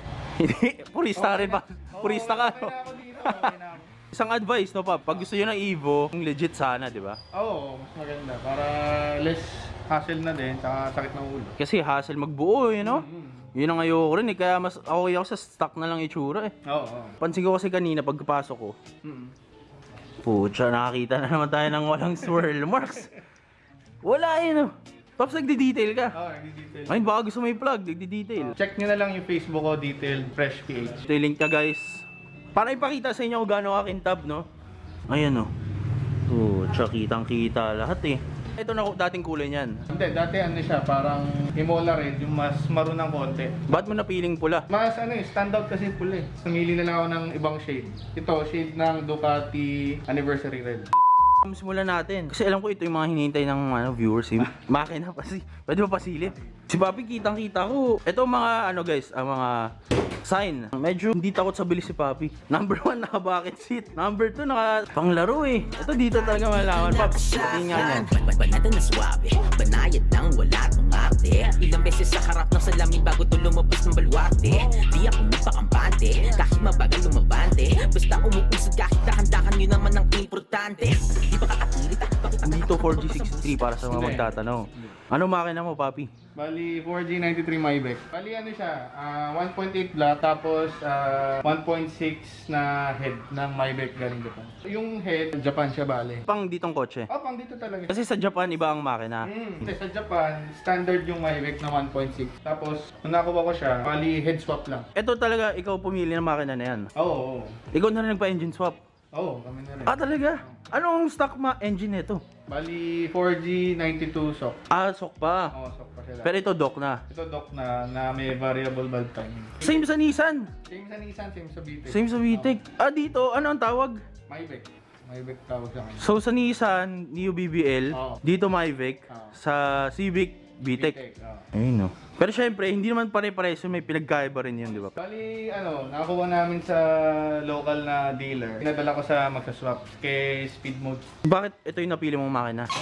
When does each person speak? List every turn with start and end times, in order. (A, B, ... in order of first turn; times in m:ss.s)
0:00.4-0:02.7 A
0:01.2-0:03.9 B
0:03.2-0:03.6 A
0:04.1-0:07.2 A
0:07.3-0:11.6 B
0:11.6-0:16.5 A
0:12.8-0:13.5 B
0:16.7-0:17.2 B
0:17.2-0:18.8 A
0:19.0-0:19.3 B
0:20.2-0:23.1 A
0:24.0-0:26.1 A
0:26.1-0:27.1 B
0:26.9-0:28.5 A
0:28.4-0:31.1 B
0:31.0-0:32.0 A
0:32.6-0:34.5 A
0:35.1-0:35.5 A
0:36.3-0:39.8 A
0:39.9-0:43.7 B
0:43.7-0:44.7 A
0:44.7-0:50.9 B
0:51.4-0:59.6 A
1:00.3-1:08.1 A
1:06.2-1:23.8 C
1:22.4-1:26.1 A
1:23.9-1:24.9 B
1:26.4-1:36.3 B
1:36.3-1:37.1 A
1:37.1-1:37.9 B
1:37.9-1:39.3 A
1:39.2-1:44.9 B
1:45.0-1:46.9 A
1:47.0-1:47.6 B
1:47.7-1:48.8 A
1:49.2-1:50.7 B
1:49.9-1:52.2 A
1:52.5-1:54.6 B
1:54.7-1:55.5 A
1:55.5-1:56.3 B
1:56.2-1:57.0 A
1:57.1-1:59.8 B
1:59.6-2:00.5 A
2:00.7-2:02.6 B
2:01.9-2:04.0 A
2:04.3-2:06.1 B
2:06.0-2:11.0 A
2:07.9-2:08.2 B
2:09.1-2:09.3 B
2:10.7-2:11.5 B
2:11.5-2:14.9 A
2:15.0-2:21.1 B
2:21.3-2:22.7 A